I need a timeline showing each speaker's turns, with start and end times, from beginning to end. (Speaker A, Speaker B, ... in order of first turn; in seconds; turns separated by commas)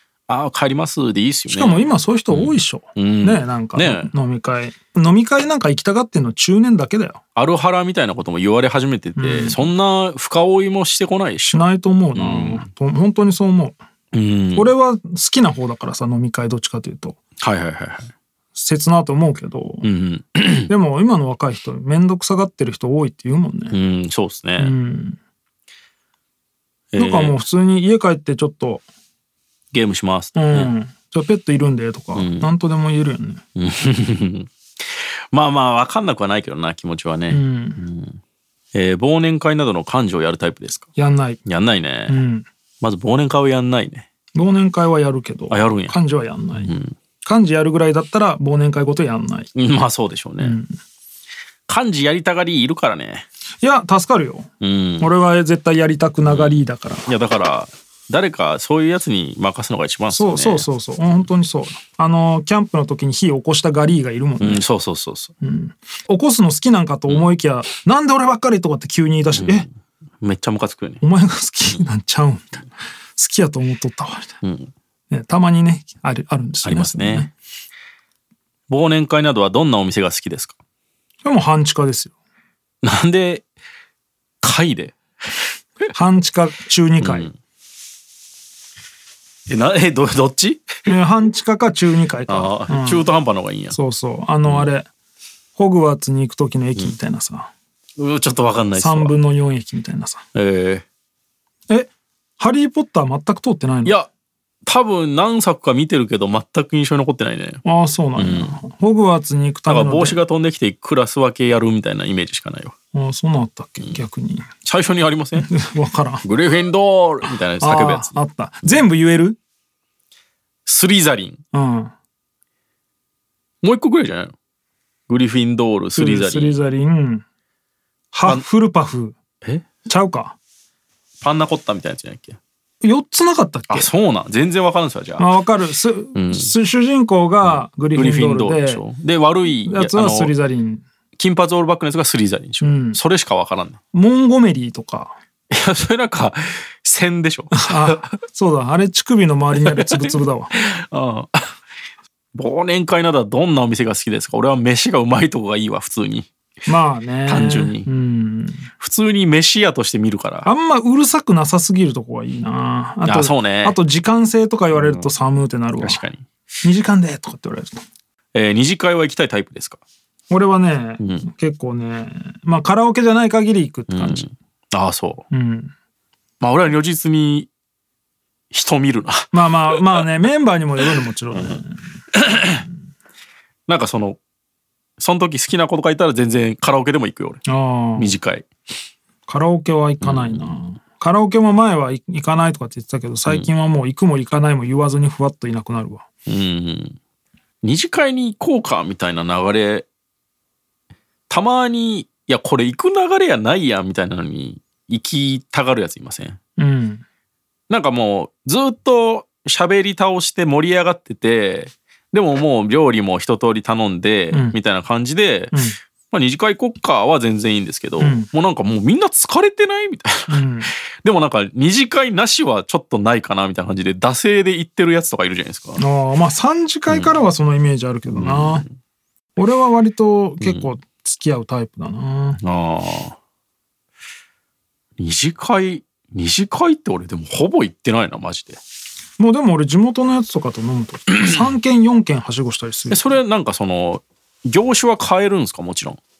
Speaker A: 0.3-4.1, Speaker B: 1.5-7.2, Speaker A: 7.3-12.7, Speaker B: 9.2-9.7, Speaker B: 11.5-13.8, Speaker A: 14.1-14.7, Speaker B: 14.5-17.2, Speaker A: 17.4-18.1, Speaker B: 18.5-19.9, Speaker A: 19.8-20.7, Speaker B: 20.7-23.8, Speaker A: 23.7-24.7, Speaker B: 24.6-25.2, Speaker A: 26.9-27.4, Speaker B: 27.0-28.8, Speaker A: 29.7-30.7, Speaker B: 30.3-33.4, Speaker A: 32.1-32.5, Speaker A: 33.5-34.5, Speaker A: 35.3-38.2, Speaker B: 37.3-37.8, Speaker A: 38.7-40.9, Speaker B: 41.0-41.4, Speaker A: 41.5-42.2, Speaker B: 42.1-42.5, Speaker A: 42.8-44.1, Speaker B: 44.3-46.7, Speaker A: 45.5-46.0, Speaker A: 46.6-46.9, Speaker B: 47.2-49.5, Speaker A: 49.5-50.6, Speaker B: 50.4-50.7, Speaker A: 51.7-53.2, Speaker B: 53.6-57.1, Speaker A: 54.6-55.1, Speaker A: 56.2-60.7, Speaker B: 60.1-64.6, Speaker A: 64.4-65.3, Speaker B: 65.4-69.7, Speaker A: 69.3-69.7, Speaker A: 70.2-71.0, Speaker B: 71.0-74.3, Speaker A: 74.4-74.7, Speaker B: 75.1-77.3, Speaker A: 76.6-77.3, Speaker A: 78.7-80.6, Speaker B: 81.2-82.1, Speaker A: 82.8-83.4, Speaker A: 84.4-85.0, Speaker B: 85.9-87.3, Speaker A: 87.0-87.3, Speaker A: 89.5-90.9, Speaker B: 90.8-93.1, Speaker A: 92.3-93.8, Speaker B: 93.7-94.9, Speaker A: 94.4-94.7, Speaker B: 95.5-97.5, Speaker A: 98.0-99.1, Speaker B: 98.7-100.2, Speaker A: 100.3-100.8, Speaker B: 101.7-104.0, Speaker A: 104.7-107.6, Speaker B: 107.6-110.2, Speaker A: 108.2-108.6, Speaker A: 109.7-112.7, Speaker B: 112.9-114.5, Speaker A: 114.6-115.5, Speaker B: 115.4-116.2, Speaker A: 116.2-118.8, Speaker B: 117.6-119.4, Speaker A: 120.7-121.4, Speaker B: 121.5-121.9, Speaker A: 123.6-124.3, Speaker A: 125.1-126.7, Speaker B: 125.9-127.2, Speaker B: 128.1-129.2, Speaker A: 129.4-129.7, Speaker B: 129.8-130.4, Speaker A: 131.2-132.4, Speaker B: 132.8-133.9, Speaker A: 133.7-135.3, Speaker B: 135.2-138.8, Speaker A: 136.1-136.5, Speaker A: 137.4-140.3, Speaker B: 139.6-140.8, Speaker A: 141.2-143.8, Speaker B: 142.6-143.0, Speaker B: 143.9-145.1, Speaker A: 145.5-148.1, Speaker B: 147.5-150.5, Speaker A: 149.7-151.5, Speaker A: 152.3-156.3, Speaker B: 156.7-158.7, Speaker A: 157.2-157.9, Speaker A: 158.8-160.5, Speaker B: 160.4-166.0, Speaker A: 163.0-163.8, Speaker A: 164.7-165.1, Speaker A: 165.8-166.2, Speaker B: 166.6-167.8, Speaker A: 168.3-169.8, Speaker B: 170.3-174.3, Speaker A: 171.0-171.3, Speaker A: 173.9-175.2, Speaker B: 175.3-175.7, Speaker A: 176.4-177.5, Speaker A: 178.5-180.0, Speaker B: 179.3-181.8, Speaker A: 182.1-182.6, Speaker A: 183.7-184.2, Speaker A: 185.0-187.4, Speaker B: 187.4-188.1, Speaker A: 187.9-188.5, Speaker B: 189.3-196.0, Speaker A: 190.0-190.6, Speaker A: 196.3-197.0, Speaker A: 197.6-199.9, Speaker A: 201.3-206.4, Speaker B: 206.6-207.0, Speaker A: 207.7-215.6, Speaker B: 214.3-214.6, Speaker B: 215.5-215.8, Speaker A: 216.1-220.4, Speaker B: 218.0-218.3, Speaker B: 220.3-220.7, Speaker A: 221.0-225.8, Speaker B: 225.8-228.6, Speaker A: 226.9-227.2, Speaker A: 228.1-228.7, Speaker B: 229.3-232.4, Speaker A: 230.4-230.7, Speaker A: 232.4-233.2, Speaker A: 235.0-238.6, Speaker B: 239.2-243.2, Speaker A: 242.9-246.0